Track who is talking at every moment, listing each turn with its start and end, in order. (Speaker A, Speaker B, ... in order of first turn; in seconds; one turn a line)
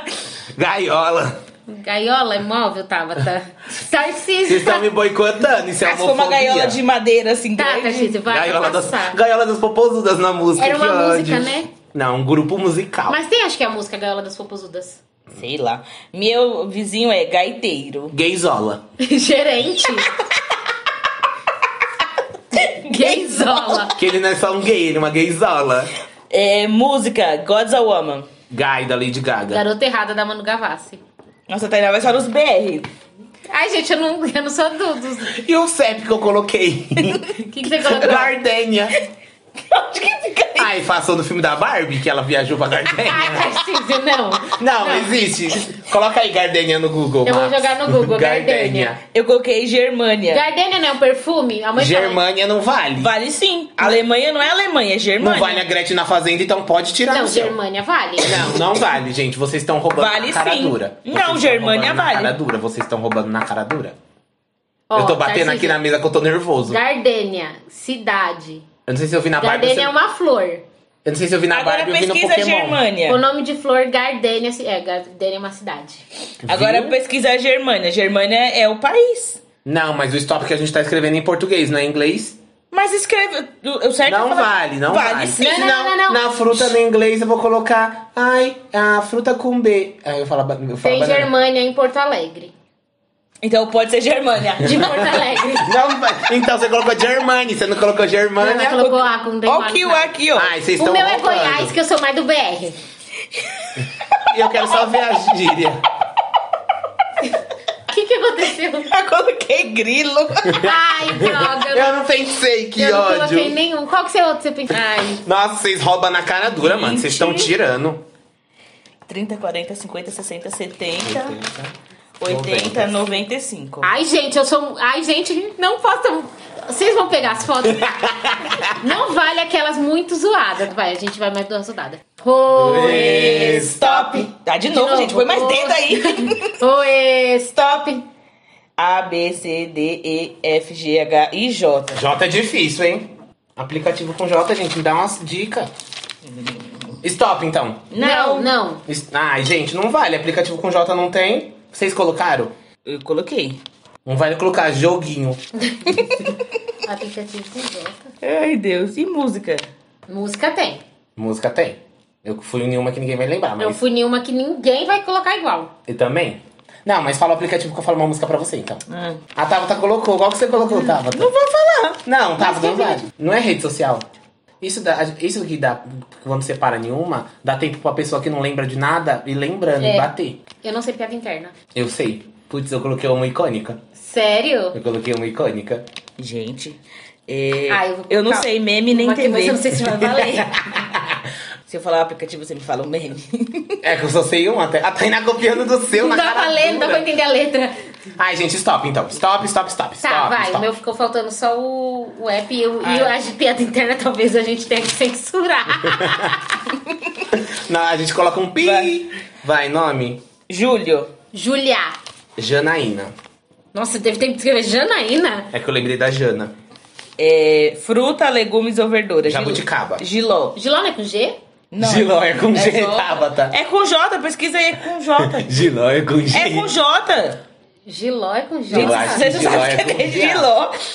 Speaker A: 0.6-1.4
Speaker B: 1.7-4.9
Speaker A: 4.5-6.8
Speaker C: 5.8-8.2
Speaker B: 7.6-9.2
Speaker A: 8.3-13.2
Speaker B: 10.6-11.7
Speaker B: 13.1-15.0
Speaker C: 15.3-18.1
Speaker A: 18.1-18.8
Speaker B: 19.0-20.1
Speaker B: 22.5-24.0
Speaker C: 22.6-23.9
Speaker A: 24.0-25.9
Speaker C: 26.3-28.3
Speaker A: 28.5-29.6
Speaker B: 29.5-31.0
Speaker C: 31.5-32.9
Speaker B: 33.5-35.4
Speaker A: 35.3-39.0
Speaker B: 37.4-38.3
Speaker C: 39.7-40.7
Speaker A: 40.6-43.6
Speaker B: 43.0-45.1
Speaker A: 44.5-49.0
Speaker B: 47.2-49.0
Speaker C: 49.1-50.4
Speaker B: 50.3-52.2
Speaker A: 51.8-53.1
Speaker C: 53.0-55.6
Speaker A: 55.2-57.6
Speaker B: 57.1-58.6
Speaker A: 58.2-64.0
Speaker C: 60.0-62.4
Speaker B: 64.9-65.8
Speaker A: 64.9-66.8
Speaker B: 66.7-68.7
Speaker A: 68.9-69.9
Speaker B: 69.4-70.6
Speaker A: 71.0-72.8
Speaker C: 71.5-73.2
Speaker B: 73.1-76.0
Speaker A: 76.5-77.0
Speaker C: 76.5-79.4
Speaker A: 79.7-82.4
Speaker C: 82.7-85.7
Speaker A: 84.1-91.3
Speaker B: 85.4-86.6
Speaker B: 90.8-92.5
Speaker C: 93.4-95.0
Speaker B: 94.6-95.9
Speaker A: 95.6-98.8
Speaker B: 98.4-100.1
Speaker C: 98.8-100.5
Speaker A: 100.3-101.7
Speaker B: 100.8-102.8
Speaker C: 103.3-104.9
Speaker A: 104.3-105.8
Speaker B: 107.9-108.9
Speaker C: 108.8-110.7
Speaker A: 110.5-113.6
Speaker B: 110.5-112.0
Speaker B: 112.8-115.2
Speaker A: 115.2-118.0
Speaker C: 116.6-117.5
Speaker C: 119.1-121.4
Speaker A: 121.0-121.7
Speaker C: 122.2-123.9
Speaker A: 122.3-123.1
Speaker B: 123.8-127.9
Speaker A: 127.6-128.8
Speaker B: 128.7-138.1
Speaker A: 132.5-134.2
Speaker C: 132.8-136.6
Speaker C: 138.8-142.0
Speaker A: 141.9-145.7
Speaker C: 146.3-146.9
Speaker A: 147.0-147.9
Speaker C: 147.9-148.5
Speaker B: 148.0-148.8
Speaker A: 148.9-152.5
Speaker C: 152.9-153.6
Speaker A: 154.1-155.4
Speaker B: 155.6-158.1
Speaker C: 158.2-159.7
Speaker B: 160.1-160.8
Speaker A: 161.2-163.8
Speaker B: 163.6-165.7
Speaker A: 165.9-168.8
Speaker C: 168.9-169.2
Speaker A: 169.3-171.3
Speaker C: 170.9-172.0
Speaker A: 172.0-174.1
Speaker B: 172.4-173.1
Speaker A: 174.6-180.4
Speaker B: 179.8-180.1
Speaker B: 180.6-181.5
Speaker A: 181.7-183.8
Speaker B: 184.0-184.8
Speaker A: 184.7-185.9
Speaker C: 186.2-190.0
Speaker B: 187.7-190.7
Speaker A: 190.2-191.2
Speaker C: 191.7-193.8
Speaker A: 193.8-197.1
Speaker B: 195.9-197.8
Speaker A: 198.2-200.7
Speaker B: 200.0-206.6
Speaker C: 202.8-203.2
Speaker A: 205.9-206.3
Speaker A: 207.3-210.2
Speaker C: 208.6-208.9
Speaker C: 210.5-211.1
Speaker B: 211.3-212.0
Speaker A: 212.4-213.1
Speaker B: 213.7-215.5
Speaker A: 215.5-216.5
Speaker C: 217.2-220.6
Speaker A: 219.3-220.0
Speaker B: 220.6-221.4
Speaker C: 221.7-225.5
Speaker A: 221.8-223.6
Speaker A: 225.2-226.7
Speaker C: 226.3-227.4
Speaker B: 227.9-229.6
Speaker A: 228.7-230.5
Speaker C: 228.7-230.8